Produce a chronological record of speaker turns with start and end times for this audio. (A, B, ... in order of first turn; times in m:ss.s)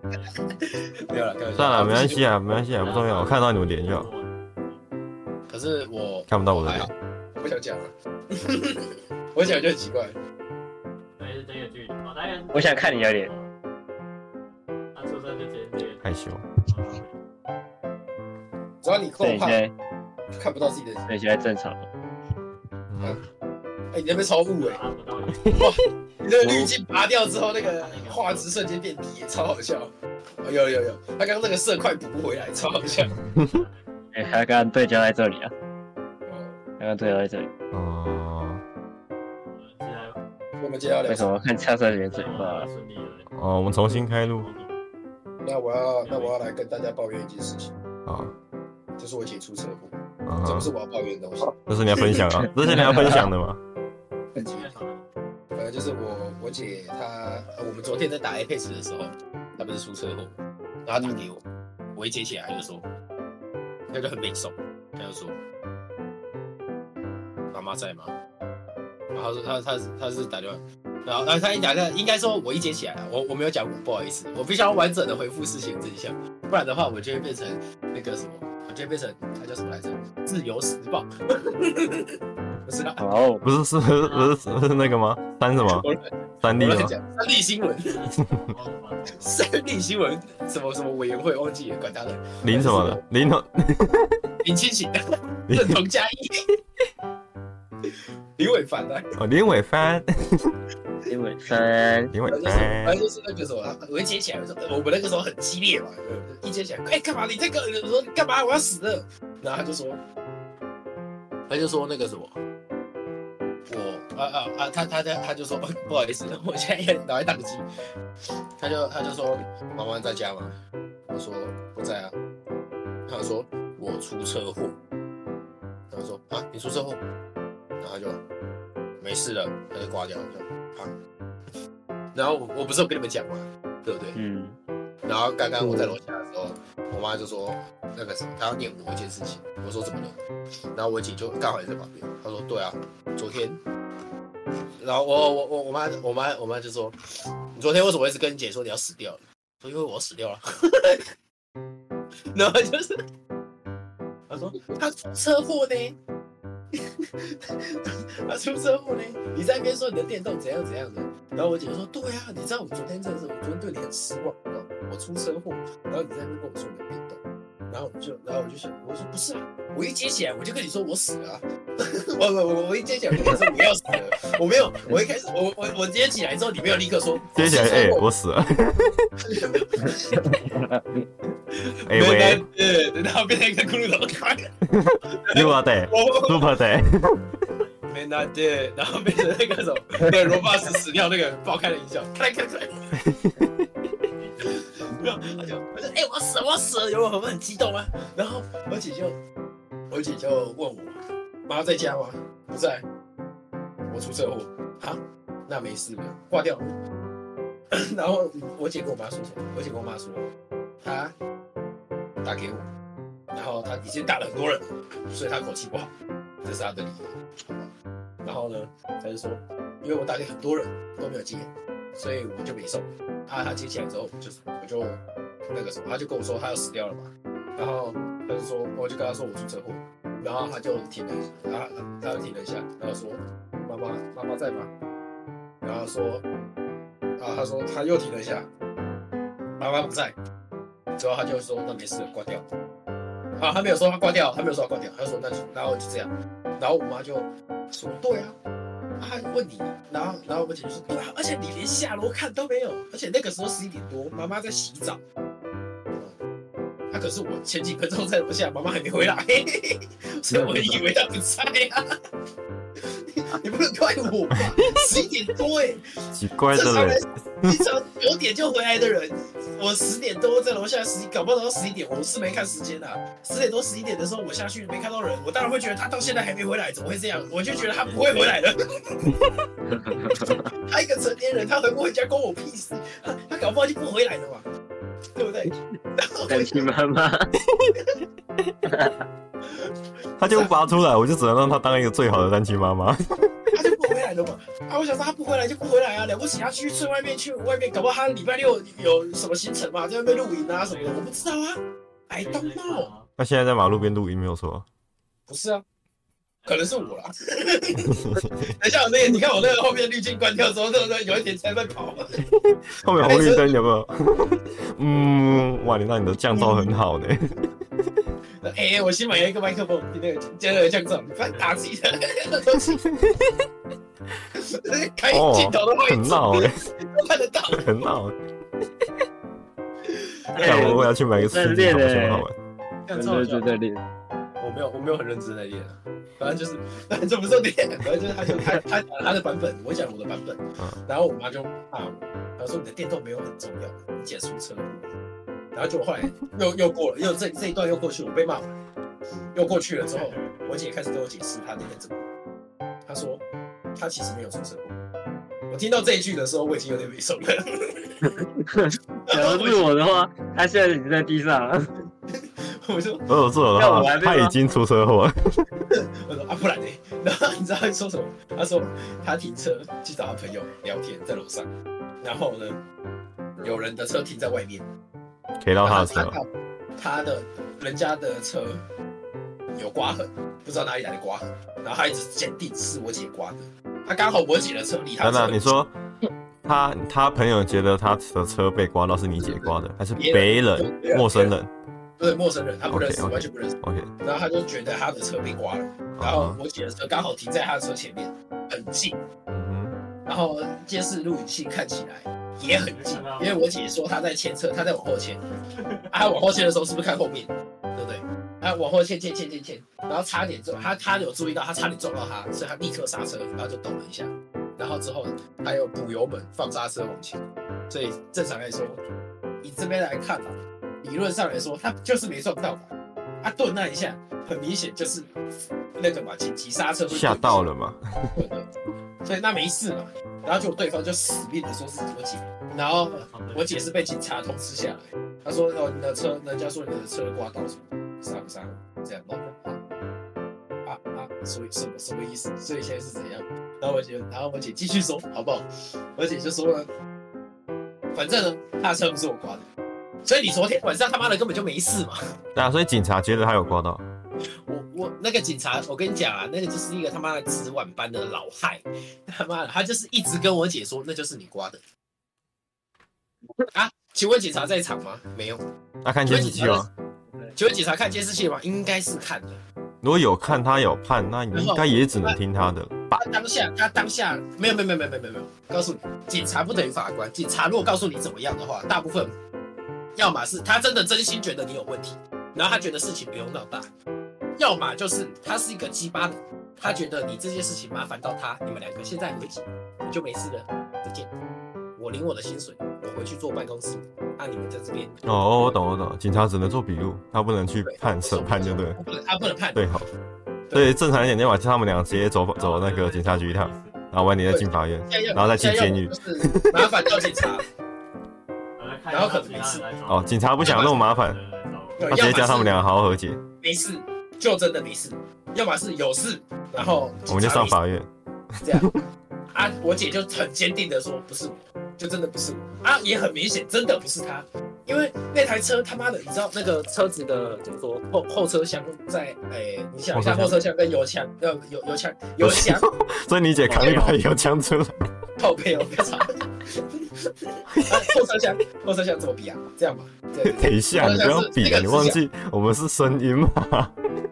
0:00.4-0:02.3 A
0:01.6-0:04.1 B
0:02.8-0:04.3 C
0:05.5-0:10.2 A
0:06.3-0:06.9 B
0:11.2-0:13.5 C
0:12.5-0:13.3 D
0:14.9-0:17.1 C
0:16.0-0:16.5 B
0:18.8-0:19.6 A
0:19.2-0:19.7 D
0:20.3-0:21.1 A
0:21.1-0:21.9 D
0:22.9-0:23.2 B
0:23.9-0:24.8 A
0:24.6-0:25.5 C
0:25.4-0:25.7 B
0:25.5-0:29.9 A
0:26.4-0:26.7 D
0:27.6-0:28.6 C
0:30.4-0:33.1 A
0:32.3-0:34.3 C
0:33.3-0:33.6 B
0:34.1-0:35.5 D
0:36.2-0:36.6 A
0:36.8-0:37.5 D
0:37.7-0:38.6 B
0:39.4-0:40.2 C
0:40.6-0:41.5 A
0:41.1-0:42.7 D
0:42.1-0:43.3 C
0:43.3-0:44.5 B
0:44.4-0:44.7 C
0:45.4-0:47.7 A
0:46.0-0:46.4 C
0:48.0-0:48.3 B
0:49.0-0:51.6 A
0:50.2-0:50.7 B
0:51.7-0:53.6 B
0:52.6-0:53.2 D
0:54.4-0:54.8 A
0:54.4-0:55.0 C
0:55.5-1:01.4 A
1:01.9-1:02.9 A
1:03.9-1:05.4 A
1:07.5-1:08.1 A
1:09.1-1:22.1 A
1:22.6-1:23.0 A
1:23.0-1:23.4 D
1:23.4-1:25.8 B
1:24.0-1:24.4 C
1:25.7-1:27.9 A
1:26.4-1:26.9 B
1:27.8-1:29.4 C
1:29.2-1:33.0 A
1:32.4-1:34.2 B
1:34.4-1:36.4 A
1:35.5-1:35.8 B
1:37.9-1:39.1 A
1:39.2-1:40.5 B
1:41.1-1:42.1 D
1:42.1-1:43.0 B
1:42.3-1:50.0 A
1:51.5-1:52.3 A
1:53.7-1:57.6 A
1:58.6-2:00.6 A
2:01.1-2:02.1 A
2:03.1-2:04.8 A
2:05.9-2:07.0 A
2:07.8-2:08.2 A
2:09.0-2:10.9 A
2:12.1-2:14.2 A
2:14.1-2:14.6 D
2:15.0-2:20.2 A
2:20.7-2:23.6 A
2:24.8-2:27.0 A
2:27.5-2:31.1 A
2:32.3-2:33.0 A
2:34.3-2:36.0 A
2:36.7-2:58.0 A
2:57.3-2:59.1 B
2:59.2-3:00.6 A
3:00.4-3:00.7 D
3:01.5-3:04.5 A
3:01.9-3:02.4 B
3:04.6-3:07.2 B
3:05.2-3:06.6 A
3:07.9-3:13.0 A
3:13.1-3:13.6 B
3:14.2-3:15.2 C
3:14.4-3:19.2 A
3:19.9-3:22.8 A
3:23.9-3:26.8 A
3:27.7-3:30.2 A
3:30.8-3:31.1 A
3:32.2-3:32.7 A
3:33.3-3:35.9 A
3:36.4-3:54.7 A
3:55.6-3:56.2 A
3:57.2-3:58.5 A
3:59.6-4:00.2 A
4:01.0-4:02.4 A
4:03.4-4:08.3 A
4:09.0-4:15.0 A
4:16.9-4:21.8 A
4:20.3-4:20.8 B
4:22.8-4:25.9 A
4:26.1-4:27.6 B
4:26.5-4:39.1 A
4:39.7-4:40.5 D
4:40.2-4:44.5 A
4:45.1-4:46.7 A
4:46.3-4:47.3 D
4:48.6-4:49.0 D
4:49.5-4:49.7 A
4:50.2-4:53.0 B
4:50.3-4:50.6 A
4:53.5-5:02.9 A
5:00.6-5:01.3 C
5:02.2-5:03.1 C
5:03.2-5:04.7 B
5:05.3-5:05.6 A
5:06.4-5:07.0 C
5:06.5-5:12.2 A
5:07.8-5:08.5 B
5:12.4-5:17.3 B
5:13.0-5:13.6 A
5:16.3-5:16.7 A
5:18.4-5:22.8 A
5:21.3-5:21.6 C
5:22.7-5:23.3 B
5:24.3-5:27.8 A
5:25.1-5:26.7 B
5:27.5-5:28.2 B
5:29.8-5:30.8 A
5:30.3-5:32.2 D
5:30.4-5:32.3 B
5:32.9-5:33.5 A
5:32.9-5:33.8 D
5:34.4-5:44.9 A
5:45.5-5:48.6 A
5:49.3-5:52.1 A
5:49.9-5:50.5 C
5:52.8-5:53.2 A
5:53.8-5:54.7 A
5:55.5-5:58.1 A
5:58.4-6:01.7 D
5:59.1-5:59.7 A
6:02.1-6:03.1 A
6:03.1-6:05.1 B
6:03.6-6:04.3 D
6:05.7-6:11.5 A
6:12.0-6:12.6 A
6:13.4-6:14.7 A
6:15.4-6:16.2 B
6:15.6-6:18.6 A
6:19.5-6:25.6 A
6:25.0-6:25.7 B
6:26.4-6:31.5 B
6:29.2-6:31.3 A
6:32.0-6:39.0 A
6:32.7-6:33.9 B
6:36.0-6:36.4 B
6:39.3-6:39.8 B
6:40.0-6:45.2 A
6:42.4-6:43.4 C
6:45.6-6:45.8 C
6:45.9-6:58.8 A
6:59.4-7:02.7 A
7:03.2-7:05.2 A
7:05.8-7:07.5 A
7:06.9-7:08.1 B
7:08.2-7:08.5 A
7:09.0-7:19.6 A
7:13.1-7:13.9 C
7:20.6-7:26.7 A
7:27.9-7:29.4 A
7:30.0-7:32.0 A
7:32.3-7:33.8 B
7:34.4-7:41.6 A
7:43.5-7:45.4 A
7:45.8-7:46.7 B
7:46.0-7:46.7 A
7:47.3-7:49.4 A
7:49.8-7:53.0 B
7:51.3-7:52.2 A
7:52.9-7:59.1 A
8:00.0-8:03.7 A
8:04.4-8:11.1 A
8:11.8-8:15.0 A
8:15.0-8:18.8 B
8:17.6-8:19.6 A
8:19.5-8:19.9 B
8:20.5-8:20.8 A
8:20.5-8:27.2 B
8:22.4-8:23.9 C
8:24.3-8:27.4 A
8:28.6-8:31.9 C
8:28.9-8:29.7 A
8:29.9-8:31.2 B
8:30.4-8:30.8 A
8:31.8-8:32.6 A
8:31.9-8:33.2 B
8:33.4-8:37.6 A
8:37.1-8:37.9 B
8:38.4-8:38.7 A
8:38.5-8:38.8 B
8:39.3-8:52.7 A
8:49.9-8:50.4 B
8:52.2-8:54.7 B
8:53.4-8:54.0 D
8:55.2-8:56.1 A
8:56.8-9:02.0 A
8:57.6-8:57.9 B
9:00.2-9:03.7 B